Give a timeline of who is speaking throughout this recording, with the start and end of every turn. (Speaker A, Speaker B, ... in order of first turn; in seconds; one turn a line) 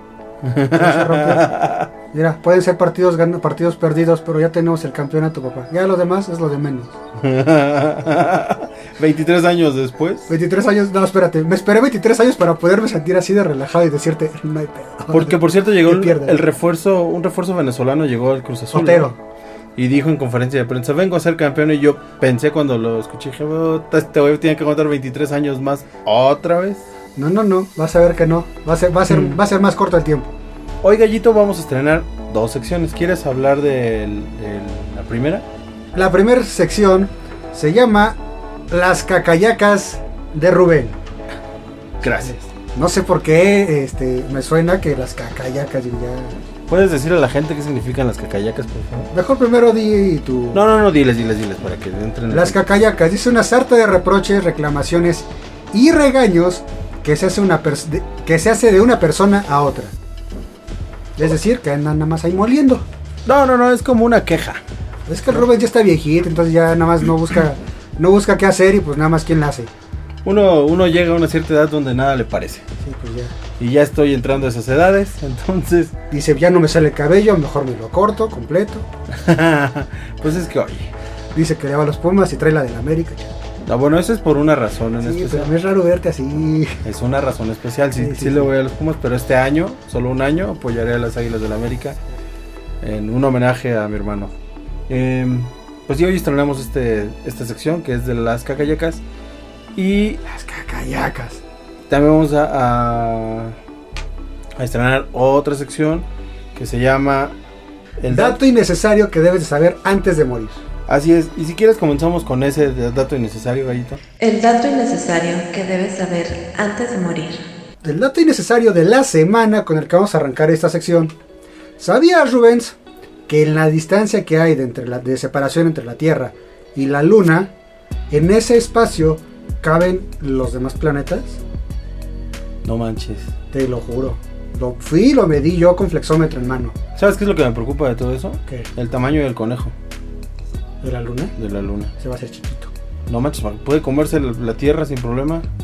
Speaker A: 0.4-1.9
Speaker B: 0.7-1.5
Speaker B: 2.1-7.0
Speaker A: 7.2-10.3
Speaker B: 10.3-16.4
Speaker A: 15.1-19.1
Speaker B: 18.7-19.2
Speaker A: 19.8-26.9
Speaker B: 27.1-30.3
Speaker A: 30.8-35.4
Speaker B: 35.9-38.2
Speaker B: 38.7-41.0
Speaker A: 42.0-42.4
Speaker B: 42.2-46.4
Speaker A: 46.7-49.1
Speaker B: 49.1-50.7
Speaker A: 50.5-52.6
Speaker B: 52.3-60.0
Speaker B: 61.2-62.9
Speaker A: 63.2-64.6
Speaker B: 65.1-69.7
Speaker A: 70.2-72.7
Speaker B: 72.8-73.3
Speaker A: 73.6-75.9
Speaker B: 76.1-78.9
Speaker A: 79.1-80.9
Speaker B: 81.3-83.3
Speaker A: 83.6-85.5
Speaker B: 85.0-86.8
Speaker A: 86.8-92.0
Speaker B: 88.0-88.5
Speaker A: 92.8-94.3
Speaker A: 94.9-99.0
Speaker A: 99.8-100.2
Speaker B: 100.2-101.4
Speaker A: 101.9-103.6
Speaker A: 104.6-107.3
Speaker A: 108.0-108.4
Speaker B: 108.1-110.6
Speaker A: 110.9-114.0
Speaker C: 114.2-117.4
Speaker B: 117.8-121.1
Speaker B: 121.8-122.8
Speaker B: 123.3-127.5
Speaker B: 128.1-131.4
Speaker A: 132.6-133.3
Speaker B: 133.5-136.8
Speaker A: 136.9-139.7
Speaker B: 140.8-141.3
Speaker A: 141.3-141.9
Speaker B: 142.0-142.7
Speaker A: 143.1-145.5